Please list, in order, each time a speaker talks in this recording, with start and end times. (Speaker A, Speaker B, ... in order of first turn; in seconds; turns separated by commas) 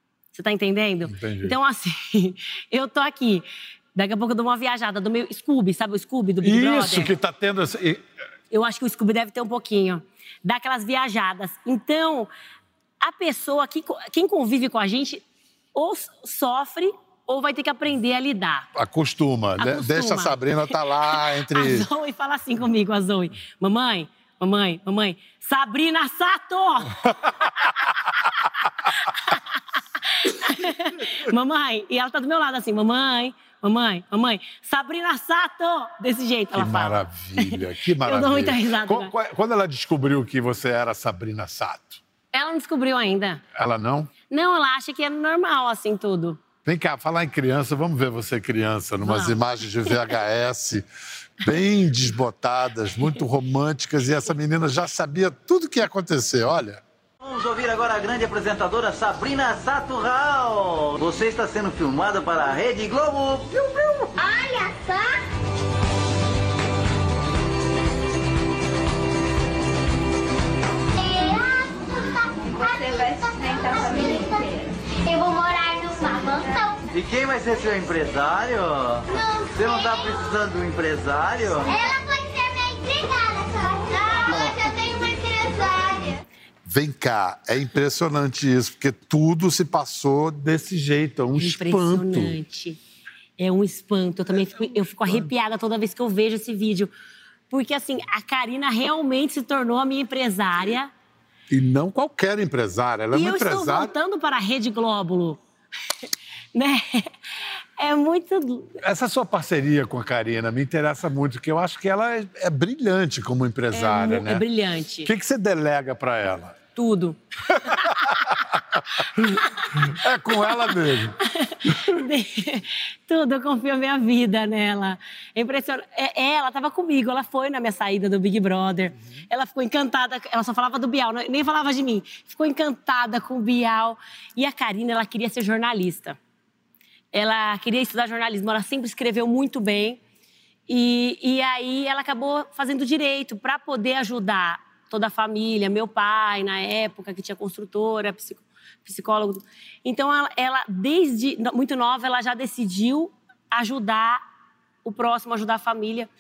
Speaker A: 0.3-7.1, Speaker B: 1.1-1.6, Speaker B: 6.4-8.0, Speaker A: 8.5-12.3, Speaker A: 13.0-15.2, Speaker A: 15.8-18.7, Speaker B: 18.8-21.9, Speaker A: 19.6-27.8, Speaker A: 28.9-29.5, Speaker A: 30.0-39.1, Speaker B: 36.5-42.0, Speaker A: 42.3-43.4, Speaker B: 43.5-44.1, Speaker A: 44.3-46.4, Speaker B: 46.6-50.9, Speaker A: 49.0-49.9, Speaker B: 51.4-56.8, Speaker C: 57.2-64.0, Speaker D: 64.1-65.2, Speaker D: 71.0-76.9, Speaker C: 76.9-81.7, Speaker D: 79.1-80.0, Speaker D: 81.7-86.2, Speaker B: 86.6-92.3, Speaker A: 91.3-92.8, Speaker A: 93.4-96.9, Speaker B: 94.7-95.3, Speaker A: 97.5-100.9, Speaker B: 101.5-103.9, Speaker A: 103.1-105.4, Speaker A: 106.5-107.1, Speaker A: 107.8-108.8, Speaker B: 108.8-114.4, Speaker A: 113.7-115.1, Speaker B: 115.0-116.6, Speaker A: 116.8-117.8, Speaker B: 117.6-121.2, Speaker A: 121.2-136.2, Speaker A: 137.1-140.0, Speaker A: 140.7-154.2, Speaker A: 154.8-156.1